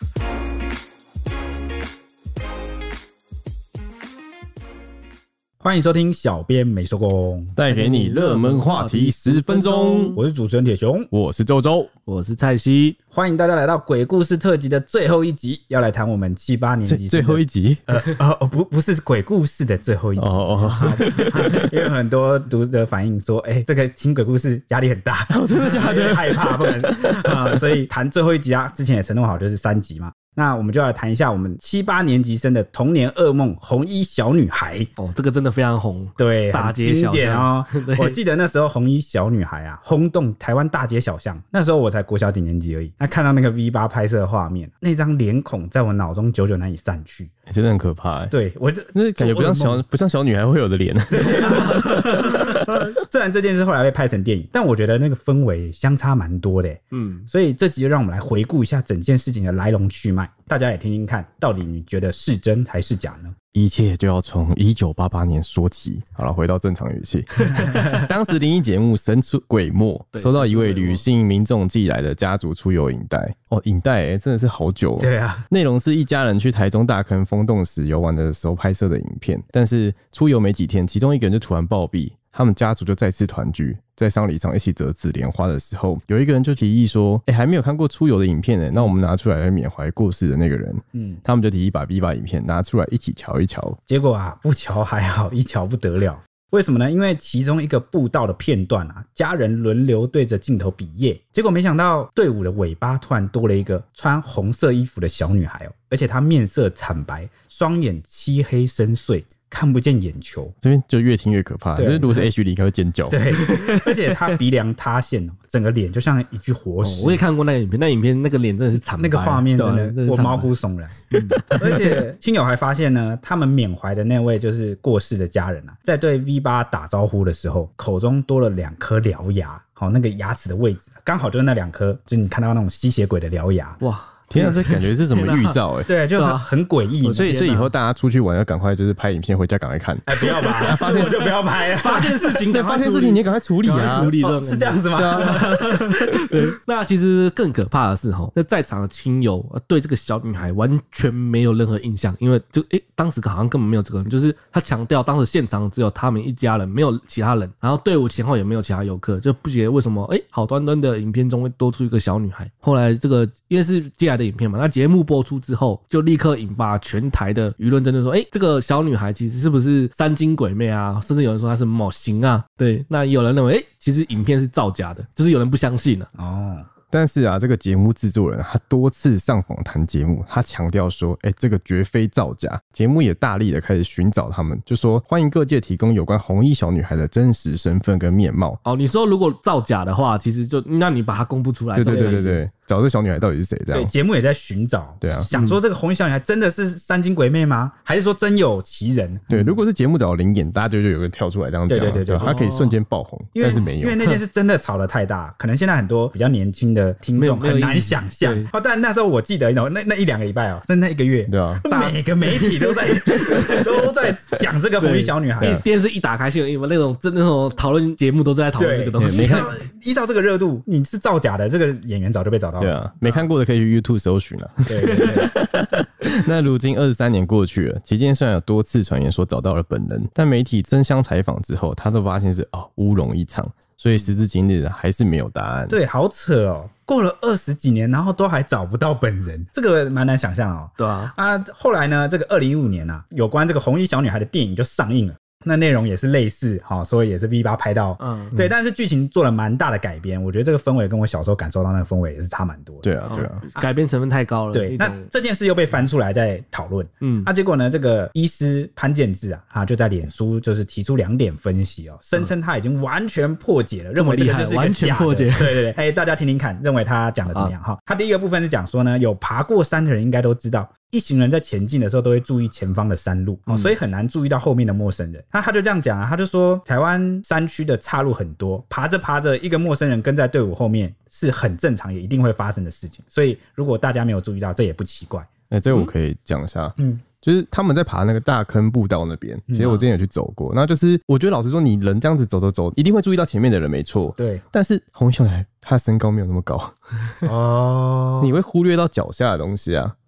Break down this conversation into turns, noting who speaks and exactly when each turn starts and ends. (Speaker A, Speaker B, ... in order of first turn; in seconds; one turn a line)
Speaker A: 5.6-7.5
Speaker B: 7.5-10.2
Speaker C: 7.7-10.2
Speaker A: 10.2-11.1
Speaker B: 11.1-11.9
Speaker C: 12.1-13.0
Speaker A: 13.1-34.9
Speaker B: 16.8-17.8
Speaker B: 20.2-21.6
Speaker C: 20.8-21.5
Speaker B: 25.3-27.3
Speaker C: 35.0-38.2
Speaker A: 36.2-47.3
Speaker B: 47.5-48.3
Speaker A: 48.3-49.8
Speaker B: 48.9-52.8
Speaker A: 51.1-63.3
Speaker C: 51.5-52.2
Speaker C: 56.9-57.3
Speaker B: 63.5-93.8
Speaker C: 70.1-71.0
Speaker A: 75.0-75.4
Speaker A: 90.9-91.2
Speaker A: 93.9-110.5
Speaker B: 110.6-113.2
Speaker A: 111.7-112.3
Speaker A: 113.1-117.2
Speaker C: 113.3-114.4
Speaker C: 116.8-120.5
Speaker A: 118.9-133.8
Speaker C: 121.1-122.0
Speaker C: 133.8-137.7
Speaker B: 134.3-135.9
Speaker A: 135.9-137.3
Speaker B: 137.1-141.4
Speaker A: 140.1-142.4
Speaker C: 140.5-140.8
Speaker C: 141.6-176.1
Speaker B: 142.5-144.1
Speaker A: 143.7-145.9
Speaker B: 145.0-146.1
Speaker A: 176.2-176.7
Speaker B: 176.9-188.6
Speaker C: 188.6-192.2
Speaker B: 191.7-193.9
Speaker A: 191.8-192.4
Speaker A: 193.7-199.2
Speaker B: 195.0-195.3
Speaker C: 195.3-195.6
Speaker B: 199.3-204.0
Speaker C: 199.3-199.6
Speaker A: 201.7-202.4
Speaker C: 202.2-202.8
Speaker A: 203.3-215.6
Speaker C: 207.2-208.5
Speaker B: 211.3-211.6
Speaker C: 211.7-213.9
Speaker C: 214.8-219.5
Speaker A: 218.6-223.2
Speaker B: 219.0-219.5
Speaker B: 222.6-235.8
Speaker A: 224.7-225.3
Speaker A: 235.7-252.9
Speaker C: 240.8-241.1
Speaker C: 248.0-248.5
Speaker B: 252.8-253.4
Speaker C: 253.1-255.1
Speaker A: 254.5-285.3
Speaker C: 257.0-257.3
Speaker C: 263.9-265.6
Speaker C: 273.5-273.7
Speaker B: 285.5-296.7
Speaker A: 286.8-287.0
Speaker A: 289.5-289.9
Speaker A: 294.2-294.4
Speaker A: 297.2-298.3
Speaker B: 298.2-299.9